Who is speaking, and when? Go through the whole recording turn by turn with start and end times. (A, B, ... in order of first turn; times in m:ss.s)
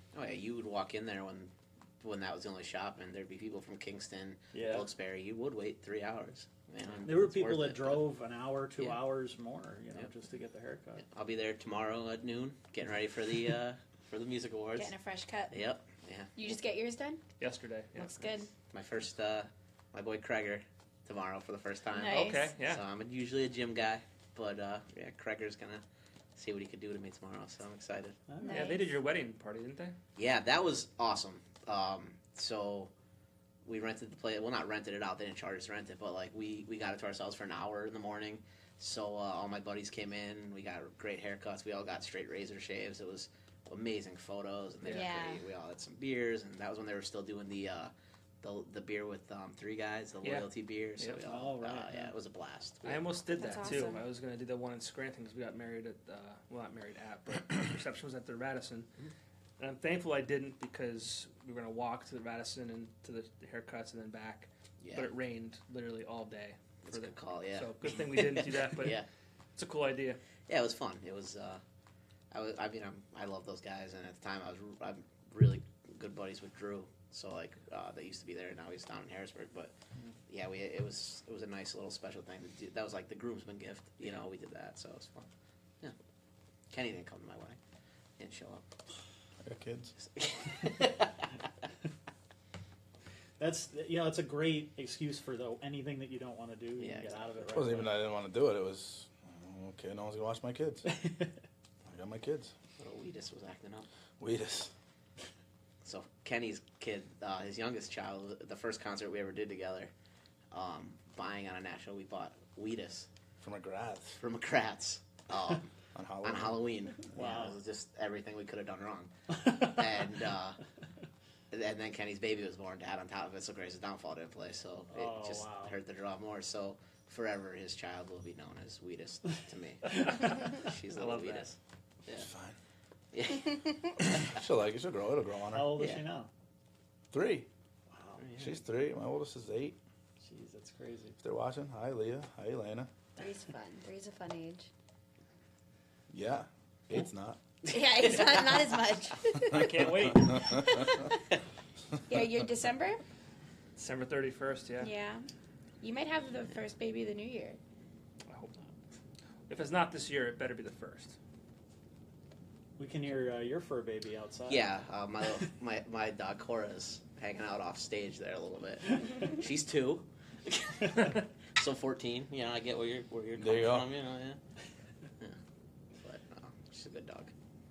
0:00.1-0:08.1 A
0:04.5-0:04.9 B
0:07.0-0:11.0 B
0:11.0-0:14.9 A
0:14.8-0:15.6 C
0:15.5-0:16.6 A
0:16.4-0:17.2 C
0:17.4-0:18.3 D
0:18.0-0:18.5 C
0:18.7-0:25.8 A
0:21.9-0:22.5 C
0:22.1-0:22.8 D
0:26.4-0:28.2 A
0:28.3-0:28.6 B
0:28.4-0:28.9 C
0:28.4-0:30.0 D
0:30.2-0:32.9 A
0:33.6-0:53.1 A
0:44.8-0:45.4 C
0:51.2-0:52.1 B
0:52.8-0:58.9 D
0:53.3-0:54.0 C
0:59.6-1:09.0 D
1:04.8-1:05.1 A
1:06.8-1:09.1 A
1:09.6-1:10.2 D
1:10.5-1:11.6 A
1:12.3-1:19.7 A
1:20.3-1:25.3 A
1:26.7-1:27.6 A
1:28.2-1:28.6 A
1:29.4-1:29.9 E
1:30.0-1:31.3 A
1:33.4-1:37.9 B
1:36.8-1:37.5 A
1:37.5-1:41.0 E
1:40.9-1:41.3 B
1:41.9-1:42.5 E
1:42.8-1:43.9 A
1:44.2-1:44.7 E
1:45.8-1:49.9 A
1:50.5-1:53.1 A
1:53.4-1:54.2 E
1:54.2-1:55.7 A
1:55.9-1:56.6 E
1:56.2-2:00.6 A
1:57.1-1:57.6 B
1:59.4-1:59.7 B
2:01.5-2:12.3 A
2:04.9-2:05.7 B
2:09.9-2:10.4 D
2:10.9-2:11.5 D
2:12.2-2:12.6 E
2:13.1-2:14.2 A
2:14.0-2:15.8 E
2:15.5-2:16.3 B
2:15.8-2:16.0 A
2:17.1-2:17.5 E
2:17.9-2:18.2 B
2:18.2-2:18.6 A
2:18.4-2:19.8 E
2:20.2-2:21.2 B
2:21.2-2:22.9 E
2:23.2-2:24.7 C
2:26.1-2:27.4 E
2:27.7-2:28.6 A
2:27.7-2:31.2 C
2:29.4-2:30.6 D
2:29.5-2:31.0 E
2:32.1-2:33.0 C
2:33.8-2:34.9 D
2:34.8-2:35.2 C
2:35.8-2:37.6 C
2:38.3-2:38.7 D
2:39.5-2:41.2 D
2:42.8-2:44.7 B
2:44.5-2:54.4 A
2:53.4-2:53.9 E
2:56.0-2:57.3 A